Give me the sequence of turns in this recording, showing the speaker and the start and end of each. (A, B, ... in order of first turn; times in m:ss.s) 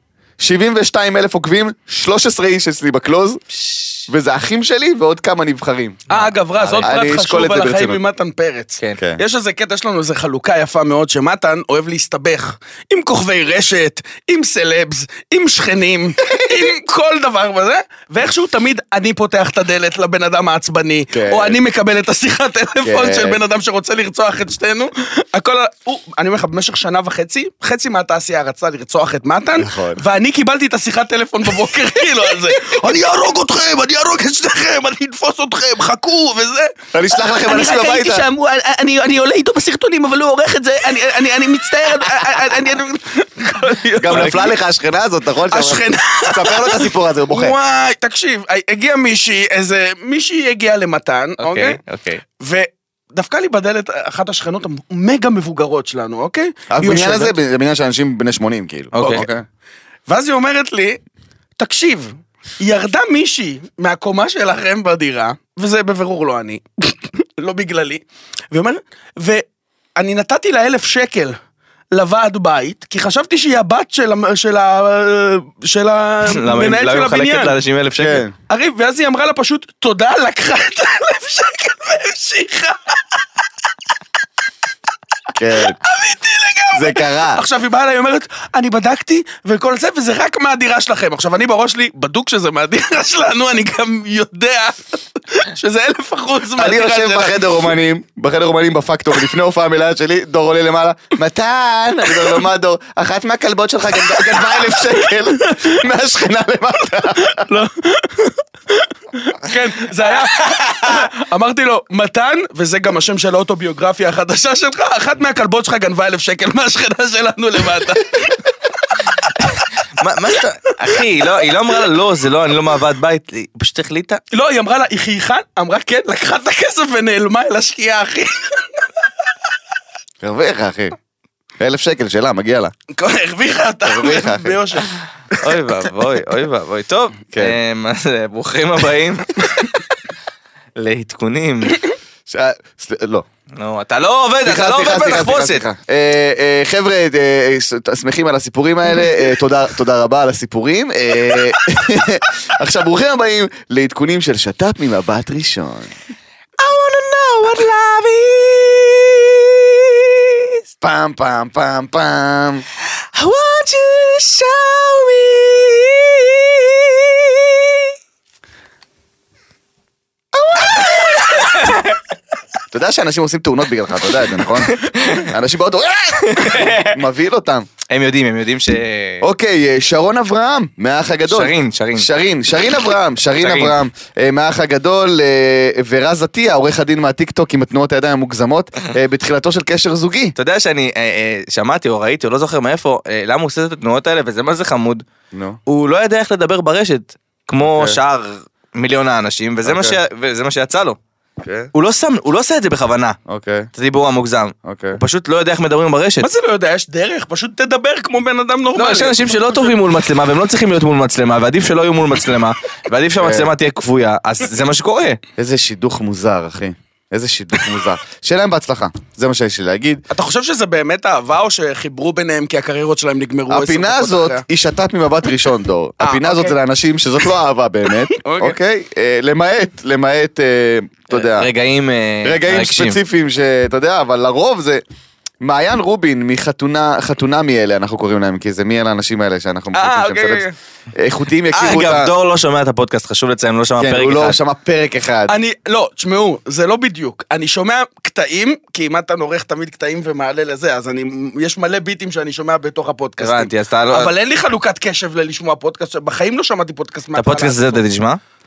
0:00.4-0:03.4 A
0:03.5-0:04.1 B
0:04.1-0:06.1 A
0:06.1-0:44.5 C
0:06.1-0:06.9 B
0:06.8-0:08.0 A
0:16.3-0:16.6 A
0:21.1-0:21.6 A
0:22.8-0:23.4 A
0:29.6-0:30.0 A
0:36.9-0:38.2 A
0:44.0-0:47.6 A
0:44.1-0:44.4 B
0:45.5-0:51.8 C
0:51.4-0:52.2 B
0:52.4-0:57.3 C
0:56.7-0:59.4 A
0:58.9-0:59.3 B
0:59.0-0:59.3 C
1:00.1-1:01.0 C
1:01.6-1:09.4 C
1:10.0-1:11.4 C
1:11.9-1:17.6 C
1:16.3-1:18.2 B
1:18.0-1:18.3 A
1:18.5-1:23.2 C
1:25.3-1:25.8 A
1:25.8-1:37.5 C
1:26.7-1:27.4 A
1:36.6-1:47.5 A
1:47.2-1:58.5 C
1:59.5-2:04.2 B
2:04.3-2:08.9 C
2:10.2-2:11.0 A
2:11.6-2:12.7 A
2:12.9-2:14.9 C
2:13.8-2:14.6 A
2:15.3-2:19.9 B
2:17.3-2:17.6 A
2:20.8-2:21.8 B
2:22.3-2:23.2 A
2:23.6-2:25.6 B
2:24.4-2:35.9 A
2:36.6-2:40.5 B
2:40.8-2:42.6 A
2:43.2-2:47.5 B
2:50.6-2:51.9 B
2:52.7-2:57.7 A
2:54.6-2:55.3 B
2:56.2-2:57.0 B
2:57.9-2:59.3 B
2:59.2-3:10.3 A
3:01.3-3:02.1 B
3:03.4-3:03.7 B
3:10.4-3:15.0 B
3:15.3-3:15.6 A
3:15.7-3:21.0 B
3:17.7-3:18.0 A
3:19.6-3:20.0 A
3:21.4-3:21.7 A
3:21.7-3:23.2 B
3:23.3-3:23.7 A
3:23.8-3:26.3 B
3:24.6-3:25.0 A
3:26.2-3:29.8 C
3:28.7-3:35.2 B
3:33.2-3:33.5 A
3:35.4-3:40.0 A
3:40.1-3:44.4 C
3:43.5-3:51.5 A
3:46.0-3:46.6 C
3:48.1-3:48.6 C
3:51.1-3:53.0 B
3:52.2-3:54.8 A
3:55.4-4:00.4 A
3:59.7-4:00.5 C
4:01.0-4:02.1 A
4:01.5-4:04.4 B
4:03.8-4:05.3 A
4:05.3-4:17.8 C
4:13.2-4:14.1 B
4:17.1-4:18.2 B